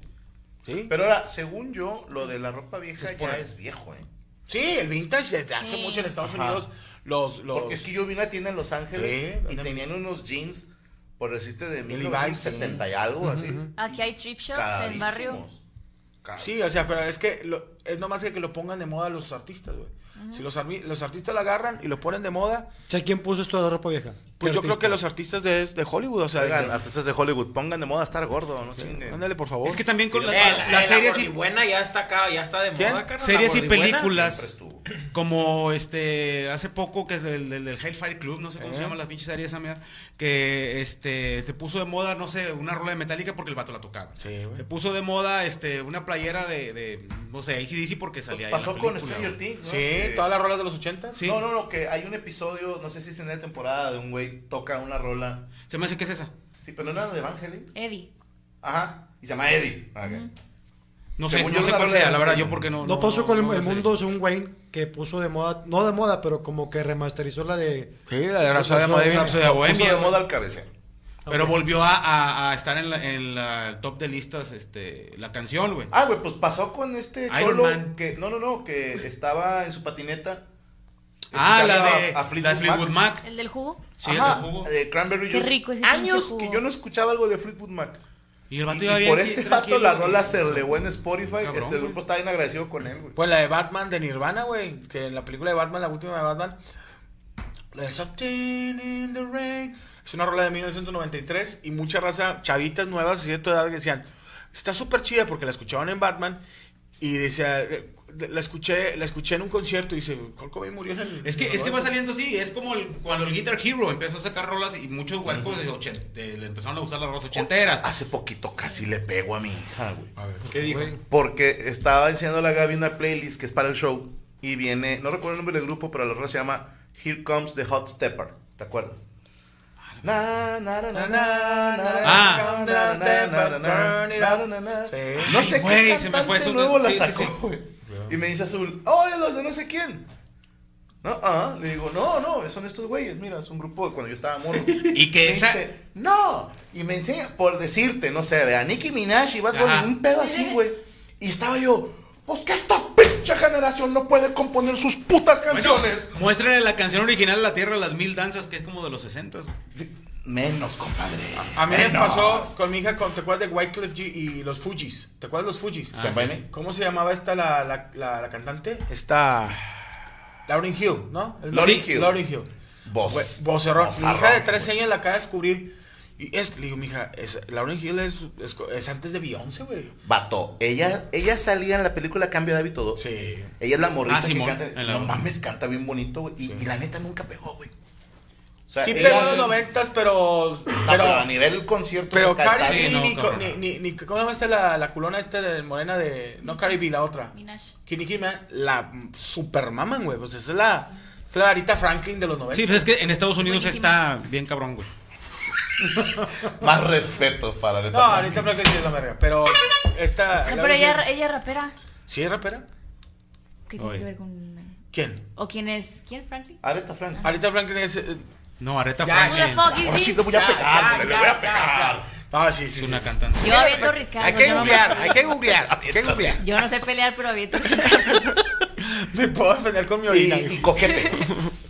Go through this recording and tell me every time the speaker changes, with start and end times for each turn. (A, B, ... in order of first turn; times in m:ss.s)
0:00.7-0:00.9 A
0:00.9-0:04.1 B
0:03.0-0:03.4 C
0:04.5-0:07.9 A
0:05.6-0:06.2 D
0:06.2-0:06.6 B
0:07.5-0:10.7 B
0:08.9-0:09.9 A
0:11.2-0:15.6 B
0:11.9-0:13.7 A
0:13.8-0:15.4 D
0:16.2-0:16.8 B
0:16.4-0:22.7 A
0:20.2-0:20.5 D
0:22.9-0:25.0 E
0:24.4-0:26.8 A
0:26.4-0:29.3 B
0:28.8-0:29.9 A
0:29.6-0:31.3 C
0:30.1-0:30.9 B
0:30.3-0:34.1 F
0:32.8-0:33.1 A
0:33.2-0:34.4 C
0:33.8-0:34.9 B
0:35.1-0:49.4 C
0:38.6-0:39.0 A
0:44.2-0:44.7 A
0:48.3-0:50.3 B
0:49.6-0:51.2 A
0:51.2-0:55.5 B
0:55.6-0:56.3 C
0:56.6-0:57.7 B
0:57.8-0:58.1 D
0:58.6-1:00.2 B
1:00.0-1:00.3 D
1:01.2-1:04.0 C
1:01.3-1:02.7 B
1:02.8-1:08.0 E
1:08.1-1:09.6 A
1:08.5-1:09.4 E
1:09.1-1:10.2 C
1:09.4-1:10.7 B
1:11.3-1:15.9 C
1:15.9-1:20.4 B
1:17.3-1:17.9 C
1:21.3-1:23.0 B
1:21.3-1:23.2 C
1:23.2-1:24.0 D
1:24.0-1:24.7 C
1:24.0-1:28.0 B
1:25.3-1:26.6 D
1:28.5-1:32.0 C
1:28.7-1:33.2 B
1:33.2-1:36.6 A
1:37.7-1:46.4 A
1:47.0-1:51.9 A
1:51.2-1:57.9 C
1:55.3-1:55.6 B
1:57.3-2:00.1 B
2:00.2-2:01.0 A
2:00.5-2:01.0 E
2:01.1-2:09.0 B
2:10.0-2:20.1 B
2:10.9-2:15.4 A
2:12.0-2:12.5 C
2:15.2-2:17.4 C
2:21.0-2:36.1 B
2:24.8-2:25.6 C
2:29.5-2:29.9 C
2:30.2-2:30.6 D
2:35.5-2:39.5 C
2:39.7-2:42.6 B
2:41.5-2:49.6 A
2:45.9-2:46.4 C
2:46.0-2:46.4 B
2:50.5-2:52.5 A
2:51.5-2:52.2 B
2:51.6-2:51.8 C
2:52.9-2:54.7 B
2:53.1-2:59.9 A
3:00.0-3:03.0 B
3:03.0-3:03.5 A
3:03.6-3:07.7 B
3:04.1-3:05.2 C
3:06.4-3:06.7 A
3:08.7-3:09.7 B
3:08.8-3:11.3 A
3:10.8-3:13.2 B
3:12.1-3:17.3 A
3:12.7-3:13.6 C
3:16.4-3:17.7 D
3:17.8-3:22.9 A
3:22.5-3:24.9 C
3:23.2-3:24.1 D
3:26.4-3:28.6 B
3:27.9-3:31.1 A
3:30.4-3:31.7 D
3:32.1-3:32.6 A
3:33.7-3:34.8 D
3:33.8-3:34.1 C
3:34.9-3:35.2 A
3:35.4-3:36.6 D
3:36.6-3:37.3 B
3:37.2-3:38.2 A
3:38.6-3:39.8 C
3:39.0-3:46.4 A
3:39.3-3:40.4 D
3:39.8-3:42.1 B
3:42.7-3:45.0 C
3:43.4-3:45.3 D
3:45.4-3:46.8 B
3:46.4-3:48.4 D
3:48.8-3:50.7 A
3:50.1-3:51.3 B
3:50.9-3:51.2 D